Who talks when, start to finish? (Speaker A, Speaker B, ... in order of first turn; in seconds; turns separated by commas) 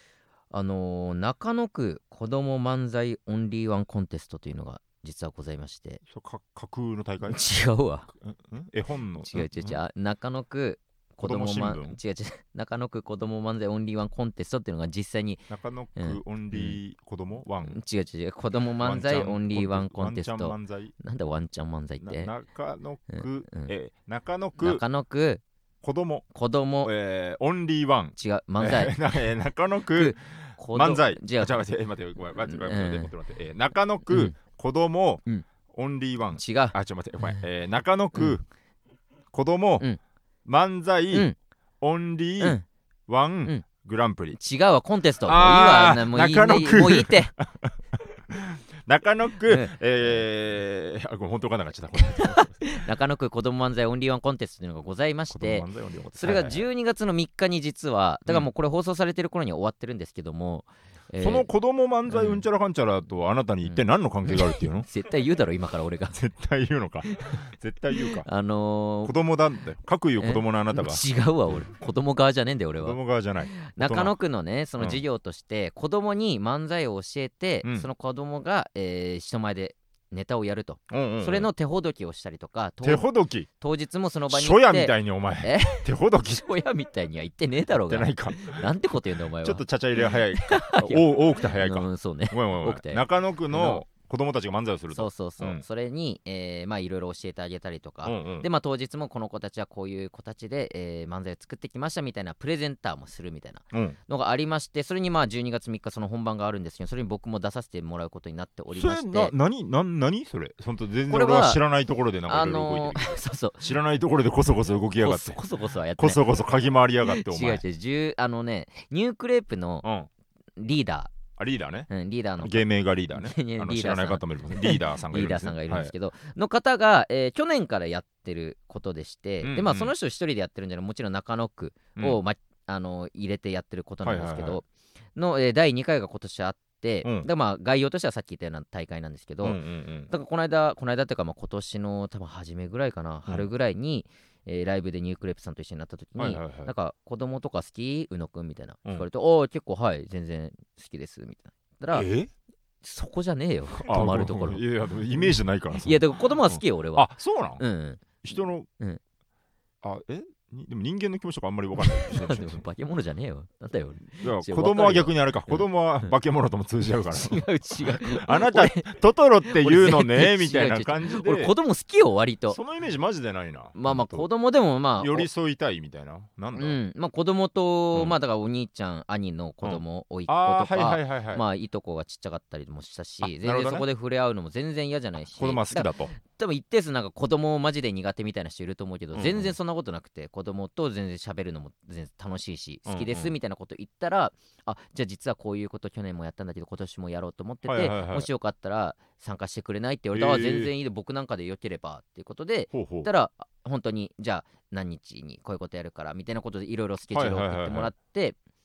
Speaker A: 0.5-6.0, Speaker B: 6.1-7.4, Speaker A: 7.2-8.1, Speaker B: 8.1-9.8, Speaker A: 9.2-16.8, Speaker B: 11.2-12.0, Speaker B: 15.5-17.8, Speaker A: 17.6-22.3, Speaker B: 18.8-20.9, Speaker B: 22.0-24.8, Speaker A: 23.1-23.7, Speaker A: 24.6-25.4, Speaker B: 25.8-26.2, Speaker A: 26.3-26.9, Speaker B: 26.8-38.4, Speaker A: 28.1-29.2, Speaker A: 29.9-31.6, Speaker A: 32.4-33.1, Speaker A: 34.1-34.4, Speaker A: 36.3-37.4, Speaker B: 39.3-39.9, Speaker B: 40.4-41.3, Speaker B: 41.8-44.4, Speaker A: 44.3-47.3, Speaker B: 45.2-52.8, Speaker A: 49.5-49.7, Speaker A: 52.0-61.5, Speaker B: 55.3-56.6, Speaker B: 61.2-64.9, Speaker A: 62.1-62.4, Speaker A: 63.6-66.2, Speaker B: 66.1-68.2, Speaker A: 67.1-67.4, Speaker A: 67.9-69.1, Speaker B: 69.0-71.7, Speaker A: 70.2-73.0, Speaker B: 72.8-74.1, Speaker A: 73.5-83.1, Speaker B: 80.9-81.5, Speaker B: 82.8-83.5, Speaker A: 83.6-93.8, Speaker B: 84.3-86.5, Speaker B: 87.9-88.7, Speaker B: 89.4-95.6, Speaker A: 94.9-109.3, Speaker B: 98.0-98.5, Speaker B: 103.7-104.0, Speaker B: 108.7-115.4, Speaker A: 111.1-111.6, Speaker A: 112.3-113.7, Speaker A: 115.0-116.2, Speaker B: 116.0-117.6, Speaker A: 117.0-119.9, Speaker B: 119.8-120.1, Speaker A: 120.6-121.1, Speaker B: 121.4-121.9, Speaker A: 121.9-134.6, Speaker B: 122.4-125.9, Speaker B: 129.4-129.9, Speaker B: 134.0-134.6, Speaker A: 135.2-152.1, Speaker B: 139.4-140.1, Speaker B: 146.2-146.7, Speaker B: 151.9-152.3, Speaker A: 152.8-159.0, Speaker B: 153.8-157.6, Speaker B: 158.2-158.7, Speaker B: 159.8-162.6, Speaker A: 161.8-166.1, Speaker B: 164.1-171.5, Speaker A: 167.1-172.6, Speaker B: 172.5-174.3, Speaker A: 173.7-175.3, Speaker B: 175.0-176.8, Speaker A: 176.5-208.3, Speaker B: 179.6-181.4, Speaker B: 183.2-183.8, Speaker B: 185.3-186.1, Speaker B: 189.1-189.5, Speaker B: 192.9-193.3, Speaker B: 197.6-198.3, Speaker B: 200.1-200.7, Speaker B: 202.7-203.1, Speaker B: 207.1-207.9